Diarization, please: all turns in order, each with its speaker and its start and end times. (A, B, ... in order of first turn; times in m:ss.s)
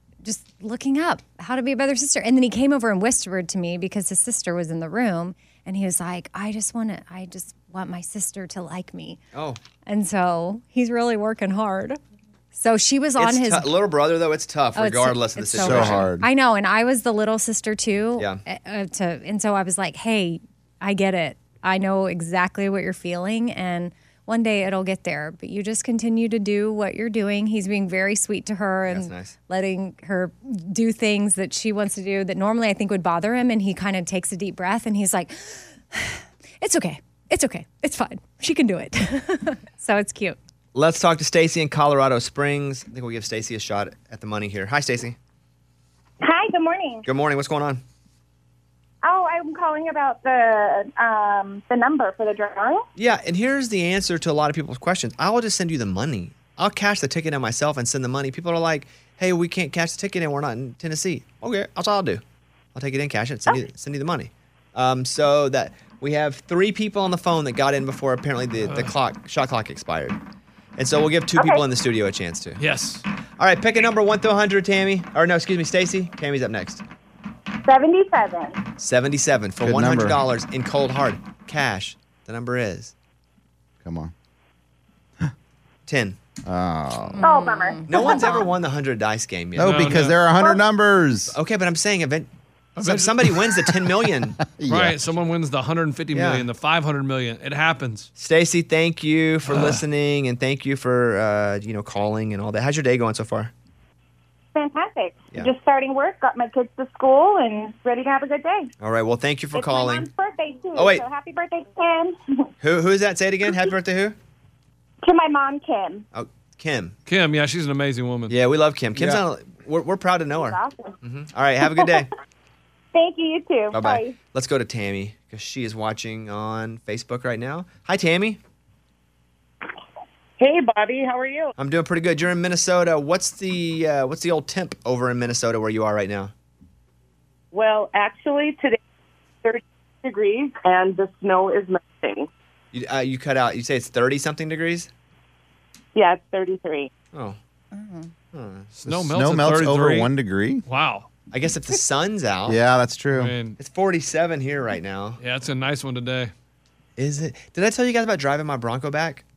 0:00.2-0:09.2 A
0:09.3-0:09.6 B
0:09.9-0:12.0 A
0:12.5-0:13.7 A
0:13.2-0:16.1 B
0:14.8-0:40.4 A
0:15.5-0:16.3 C
0:28.9-0:29.3 B
0:40.7-0:45.2 B
0:46.2-0:47.0 D
0:47.0-0:47.8 B
0:49.0-0:52.8 D
0:53.0-1:02.2 B
1:02.8-1:10.2 B
1:08.6-1:08.9 E
1:10.8-1:12.6 B
1:11.4-1:11.6 D
1:12.6-1:13.0 E
1:13.4-1:16.8 B
1:17.6-1:18.6 D
1:18.8-1:22.9 B
1:19.6-1:20.2 C
1:23.8-1:24.1 C
1:25.9-1:26.2 B
1:26.4-1:27.2 C
1:27.2-1:28.5 A
1:27.2-1:28.5 D
1:27.9-1:30.0 B
1:29.6-1:31.4 C
1:29.6-1:30.2 E
1:31.3-1:34.4 B
1:32.8-1:33.3 E
1:33.7-1:35.0 C
1:34.7-1:38.1 E
1:36.1-1:36.4 B
1:38.2-1:43.5 B
1:39.5-1:39.8 E
1:44.5-1:48.7 D
1:48.8-1:50.1 B
1:49.5-1:52.4 D
1:50.8-1:51.0 B
1:52.6-1:54.2 B
1:55.0-1:56.0 D
1:56.1-1:56.9 B
1:57.0-1:58.4 E
1:58.3-2:02.1 B
2:00.4-2:00.9 D
2:01.8-2:02.0 D
2:02.9-2:04.2 D
2:03.7-2:08.4 B
2:10.4-2:11.5 F
2:11.6-2:16.3 B
2:17.5-2:18.8 F
2:19.4-2:22.3 F
2:22.7-2:24.9 B
2:25.9-2:26.9 F
2:27.7-2:28.1 A
2:28.3-2:28.7 B
2:28.7-2:30.1 E
2:28.9-2:30.6 C
2:30.7-2:31.1 E
2:31.3-2:32.6 B
2:32.5-2:33.4 C
2:33.1-2:33.6 E
2:33.6-2:35.2 B
2:35.2-2:36.3 E
2:37.0-2:39.2 B